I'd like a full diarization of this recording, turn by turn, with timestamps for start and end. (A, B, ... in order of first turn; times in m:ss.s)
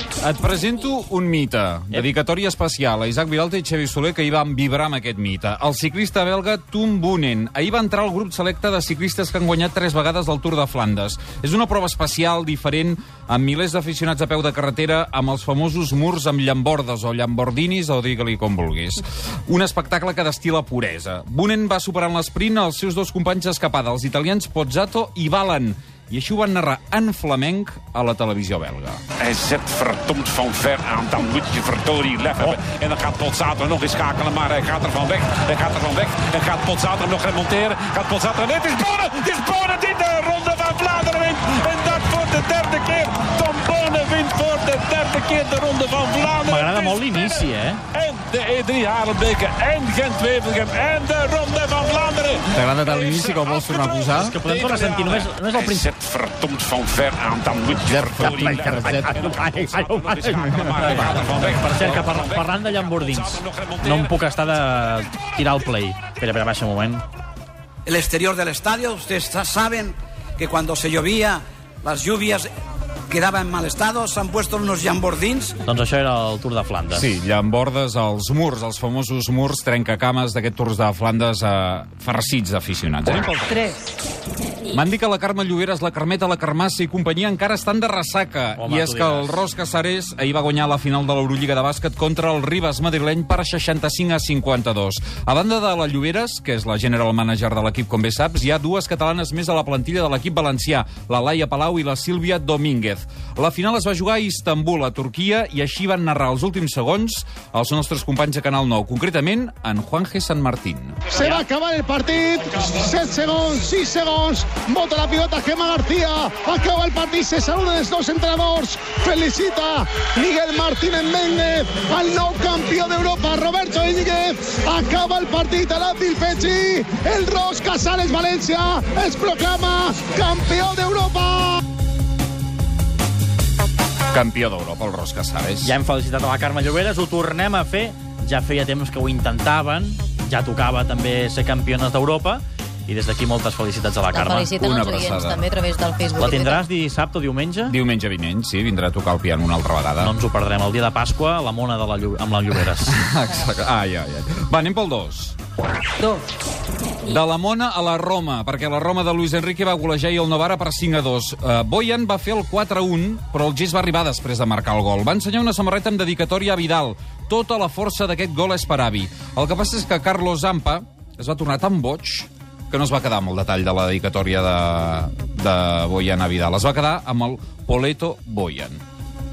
0:00.2-0:29.0 A
0:29.2-1:04.1 B
0:46.4-0:47.8 C
0:52.6-0:54.0 A
0:54.1-0:55.9 C
0:58.2-1:07.0 C
1:07.9-1:12.5 D
1:13.1-1:15.5 D
1:15.6-1:17.1 C
1:16.9-1:23.8 A
1:24.7-1:51.2 A
1:28.6-1:29.4 C
1:51.1-2:11.6 E
1:51.2-1:51.4 C
2:14.1-2:15.7 A
2:15.6-2:24.6 C
2:24.1-2:26.7 F
2:24.6-2:25.4 A
2:26.2-2:27.8 C
2:27.7-2:30.2 A
2:30.0-2:33.0 C
2:32.9-2:35.4 A
2:37.1-2:58.8 A